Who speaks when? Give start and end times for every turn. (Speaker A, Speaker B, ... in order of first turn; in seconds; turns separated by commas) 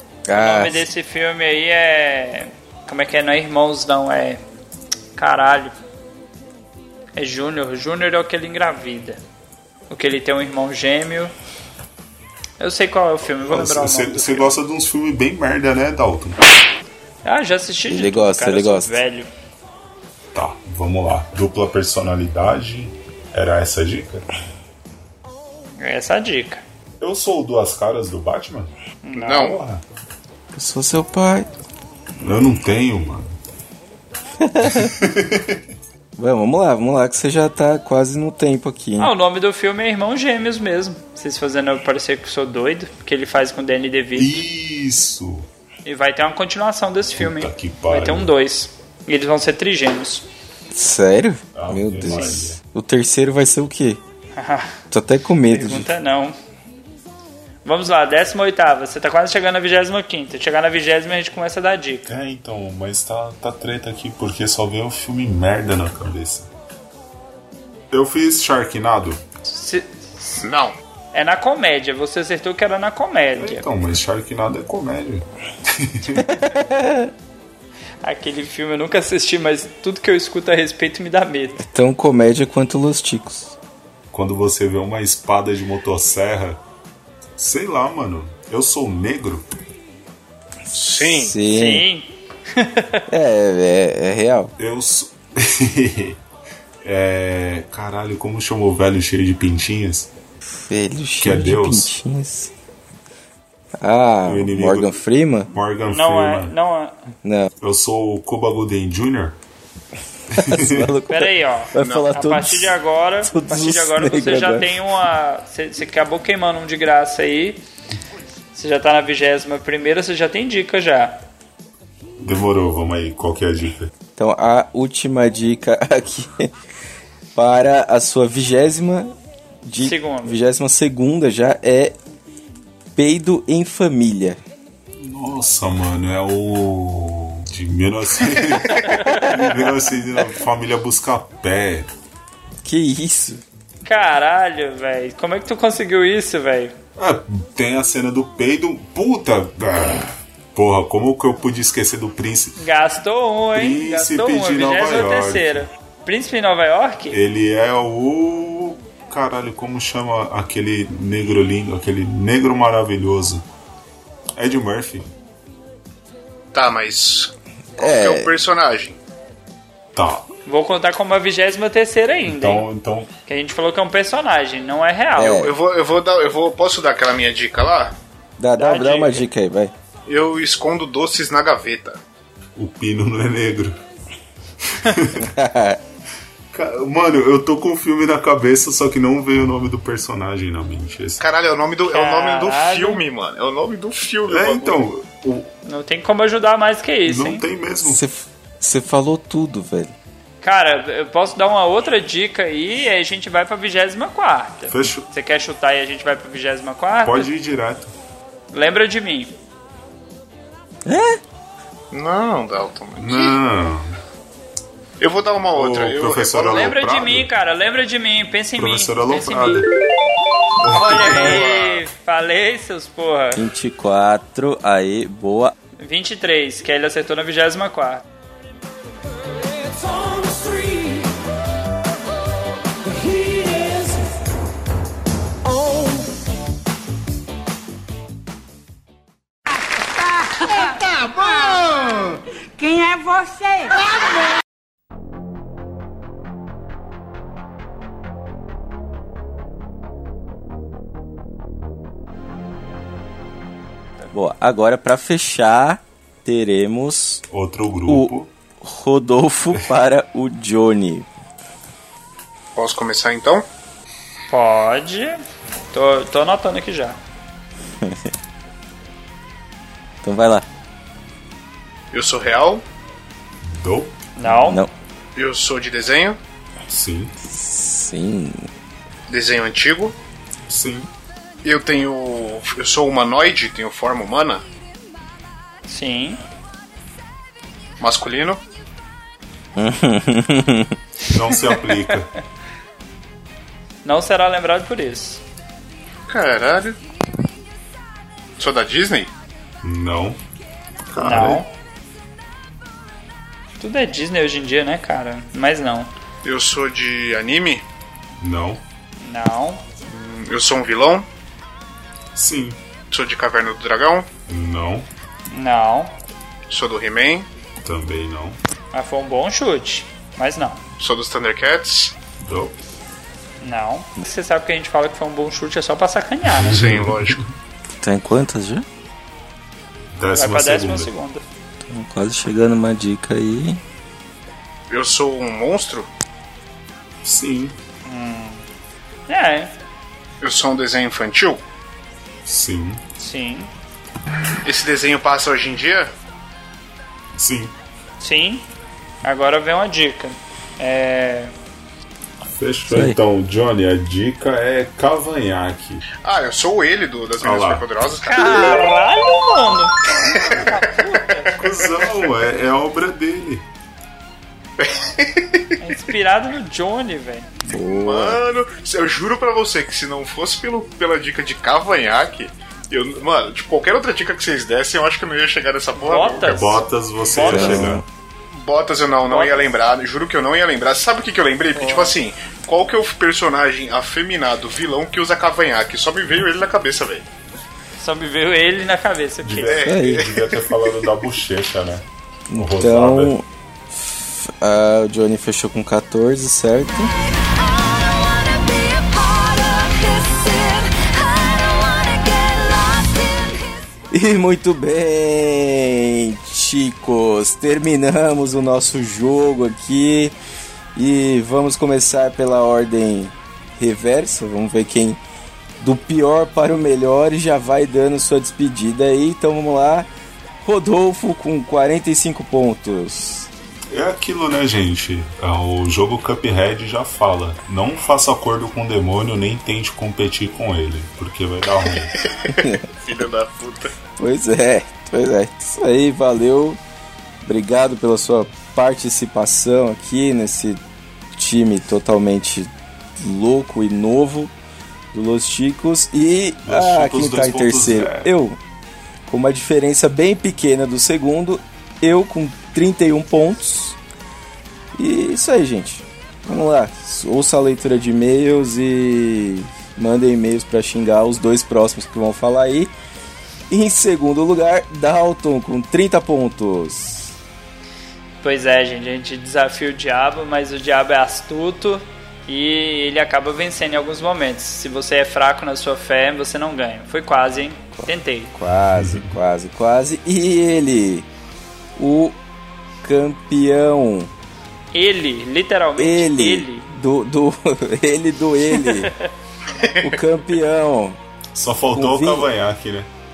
Speaker A: 0.3-0.8, Speaker B: 0.3-4.4, Speaker B: 5.2-5.7, Speaker B: 7.2-9.2, Speaker B: 9.9-11.3, Speaker B: 12.6-14.5, Speaker C: 13.4-16.4, Speaker B: 17.2-19.3, Speaker A: 17.9-19.0, Speaker C: 20.3-24.2, Speaker B: 25.8-26.6, Speaker C: 27.0-28.7, Speaker B: 29.0-29.6, Speaker D: 29.1-29.6, Speaker C: 29.3-29.8, Speaker A: 30.5-31.5, Speaker C: 32.2-33.4, Speaker A: 34.4-34.9, Speaker C: 34.6-35.6, Speaker A: 36.2-39.1, Speaker B: 39.0-44.4, Speaker C: 44.1-45.5, Speaker B: 45.8-50.2, Speaker C: 47.2-48.3, Speaker A: 50.7-54.0, Speaker C: 51.5-52.6, Speaker B: 52.1-52.4, Speaker B: 54.4-54.8, Speaker A: 54.9-55.9, Speaker B: 55.5-56.4, Speaker B: 57.6-62.1, Speaker C: 62.1-66.5, Speaker C: 67.9-69.2, Speaker B: 69.5-70.4, Speaker D: 70.4-70.7, Speaker B: 71.1-73.6, Speaker C: 73.3-76.3, Speaker A: 76.3-77.1, Speaker B: 78.0-81.6, Speaker A: 81.6-83.5, Speaker C: 84.1-86.6, Speaker C: 87.4-89.5, Speaker D: 90.7-91.3, Speaker A: 91.0-91.8, Speaker B: 91.5-93.0, Speaker A: 93.1-94.5, Speaker C: 94.6-96.2, Speaker C: 96.8-100.1, Speaker A: 100.5-102.5, Speaker C: 101.2-101.9, Speaker A: 103.8-105.5, Speaker C: 104.2-106.5, Speaker B: 105.9-107.1, Speaker A: 107.2-107.5, Speaker C: 107.6-109.4, Speaker C: 110.3-110.9, Speaker A: 110.3-114.8, Speaker B: 111.1-117.6, Speaker D: 111.8-112.0, Speaker B: 118.5-121.2, Speaker C: 122.2-123.9, Speaker A: 124.2-126.5, Speaker A: 127.3-131.9, Speaker B: 129.8-130.4, Speaker A: 132.9-134.4, Speaker C: 135.0-141.9, Speaker B: 139.0-139.3, Speaker A: 142.6-143.4, Speaker B: 143.8-146.7, Speaker C: 147.0-152.6, Speaker B: 152.6-157.2, Speaker C: 153.5-155.7, Speaker C: 157.1-163.4, Speaker C: 164.3-165.1, Speaker D: 166.5-169.0, Speaker A: 167.8-168.3, Speaker C: 169.9-170.3, Speaker B: 170.4-172.7, Speaker C: 172.2-173.1, Speaker B: 173.3-175.4, Speaker A: 175.2-175.5, Speaker D: 175.2-177.9, Speaker A: 178.4-179.7, Speaker B: 178.6-179.2, Speaker D: 180.1-182.0, Speaker C: 182.6-183.8, Speaker C: 184.6-185.2, Speaker A: 185.2-185.8, Speaker C: 186.5-191.2, Speaker D: 191.2-194.9, Speaker B: 191.8-193.0, Speaker C: 194.3-195.5, Speaker B: 195.6-197.4, Speaker C: 197.1-198.0, Speaker A: 197.8-199.9, Speaker B: 200.4-207.3, Speaker C: 204.7-205.1, Speaker C: 207.0-207.9, Speaker B: 208.5-209.3, Speaker A: 210.8-211.2, Speaker D: 211.9-213.4, Speaker C: 213.0-214.0, Speaker D: 215.0-216.7, Speaker C: 215.5-217.3, Speaker B: 216.4-219.7, Speaker C: 218.6-219.7, Speaker C: 220.6-221.4, Speaker B: 220.7-223.4, Speaker D: 220.7-221.8, Speaker A: 223.3-225.5, Speaker B: 225.8-228.0, Speaker E: 229.4-231.2, Speaker E: 232.8-234.0, Speaker E: 235.4-236.2, Speaker F: 239.5-244.3, Speaker A: 254.1-257.2, Speaker C: 257.3-258.3, Speaker A: 257.9-261.1, Speaker D: 262.6-263.4, Speaker B: 264.3-265.2, Speaker B: 265.7-267.0, Speaker A: 270.0-270.4, Speaker D: 271.9-272.6, Speaker C: 273.4-274.0, Speaker B: 274.1-274.6, Speaker A: 274.2-274.7, Speaker D: 275.1-276.2, Speaker C: 276.7-277.2, Speaker A: 277.2-278.5, Speaker D: 279.1-279.9, Speaker C: 280.5-280.9, Speaker D: 281.4-284.4, Speaker B: 285.7-286.2, Speaker D: 287.8-288.4, Speaker A: 289.6-290.8, Speaker C: 291.0-292.1, Speaker B: 291.3-292.0, Speaker B: 293.8-295.2, Speaker D: 296.1-296.8, Speaker D: 298.4-299.1, Speaker C: 299.6-300.2, Speaker C: 300.9-301.4, Speaker B: 301.0-301.5, Speaker B: 303.6-305.9, Speaker D: 306.2-307.6, Speaker C: 308.2-308.6, Speaker B: 309.0-309.6, Speaker D: 309.9-311.1, Speaker C: 312.1-312.6, Speaker D: 312.9-314.1, Speaker C: 314.3-314.9, Speaker B: 315.3-315.9, Speaker D: 316.5-317.3, Speaker C: 317.6-318.4, Speaker B: 318.7-320.6, Speaker D: 320.8-321.9, Speaker C: 322.2-322.6, Speaker B: 323.4-326.6, Speaker C: 326.2-327.2, Speaker D: 326.5-327.2, Speaker A: 327.8-328.6, Speaker C: 329.9-330.9, Speaker B: 330.1-331.2, Speaker A: 331.6-333.6, Speaker D: 334.7-335.9, Speaker C: 337.0-337.6, Speaker B: 337.8-338.4, Speaker B: 339.1-339.5, Speaker D: 340.2-341.4, Speaker C: 342.2-342.8, Speaker B: 343.0-343.5, Speaker D: 344.4-345.9, Speaker C: 347.1-347.5, Speaker B: 348.0-348.4, Speaker B: 349.0-351.3, Speaker C: 352.2-355.8, Speaker A: 352.7-353.0, Speaker D: 356.0-358.6, Speaker C: 357.2-357.7, Speaker B: 358.0-361.4, Speaker C: 359.9-360.6, Speaker D: 360.1-362.1, Speaker C: 361.3-363.4, Speaker D: 364.6-365.5, Speaker B: 365.6-367.3, Speaker A: 367.4-368.2, Speaker D: 367.6-376.6, Speaker B: 375.8-377.7, Speaker C: 376.2-377.8, Speaker D: 377.1-377.5, Speaker A: 377.2-377.8, Speaker D: 378.3-387.1, Speaker B: 379.0-379.5, Speaker B: 381.5-381.9, Speaker B: 387.8-389.6, Speaker C: 389.2-393.1, Speaker D: 389.4-390.8, Speaker A: 389.6-390.0, Speaker A: 392.3-396.9, Speaker E: 397.0-403.5, Speaker A: 403.9-410.1, Speaker A: 410.7-415.0, Speaker A: 415.6-419.9, Speaker A: 420.4-423.3, Speaker C: 423.7-431.9, Speaker D: 431.8-433.7, Speaker A: 432.4-432.6, Speaker A: 434.0-436.6, Speaker A: 437.2-440.6, Speaker A: 441.1-444.3, Speaker A: 444.9-448.4, Speaker C: 446.4-448.1, Speaker A: 449.1-453.8, Speaker A: 454.7-462.7, Speaker A: 463.5-467.1, Speaker B: 468.2-478.3, Speaker A: 477.8-481.1, Speaker C: 478.7-479.1, Speaker A: 481.8-482.1, Speaker A: 482.8-484.1, Speaker B: 484.7-486.6, Speaker A: 485.8-488.9, Speaker B: 488.5-489.1, Speaker D: 489.5-490.0, Speaker A: 489.8-491.0, Speaker C: 491.3-492.9, Speaker A: 491.7-492.3